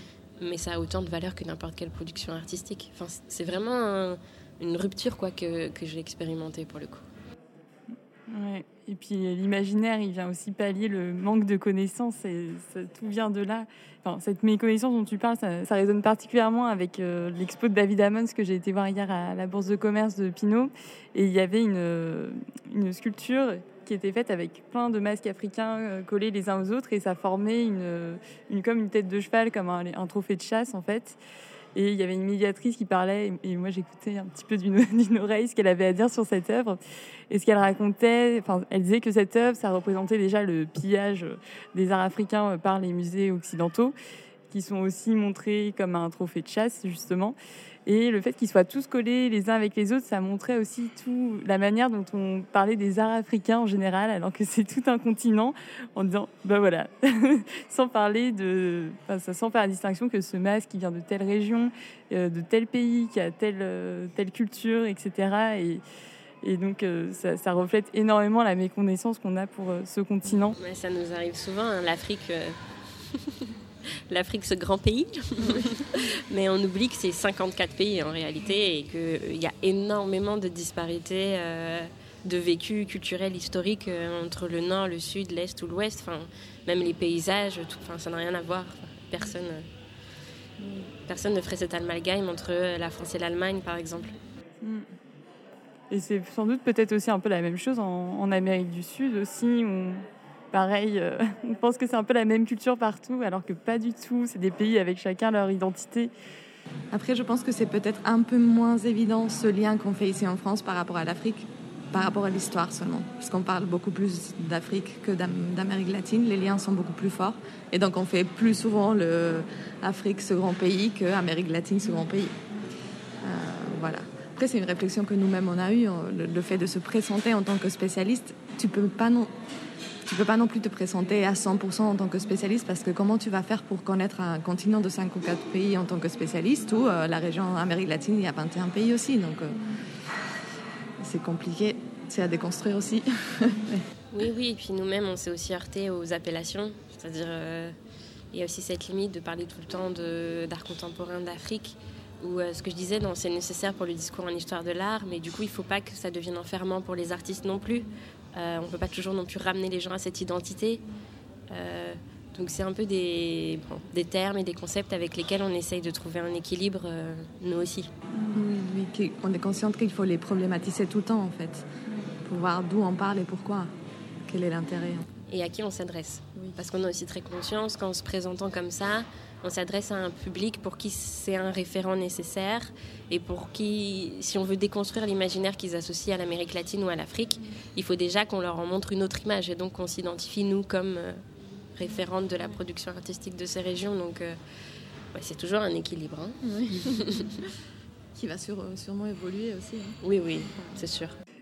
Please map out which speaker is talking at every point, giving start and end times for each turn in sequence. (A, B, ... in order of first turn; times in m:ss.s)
0:00.4-0:07.0 A
0:08.3-0:31.2 B
0:31.7-0:36.8 B
0:37.3-0:43.9 B
0:44.5-0:47.4 B
0:47.9-1:05.8 B
1:06.4-1:10.6 B
1:10.3-1:12.6 A
1:13.1-1:13.5 A
1:14.1-1:29.7 A
1:31.1-1:34.1 A
1:34.6-1:34.9 B
1:35.9-1:46.1 B
1:46.9-2:02.4 C
2:03.2-2:09.3 C
2:10.1-2:19.6 C
2:21.0-2:23.8 C
2:24.1-2:27.7 A
2:28.3-2:40.8 A
2:41.5-2:47.9 A
2:48.3-2:51.6 C
2:52.2-2:53.7 C
2:54.3-2:55.1 C
2:55.3-3:11.2 A
3:11.8-3:14.4 A
3:15.1-3:17.4 A
3:16.5-3:17.1 C
3:18.1-3:20.0 C
3:20.0-3:21.2 A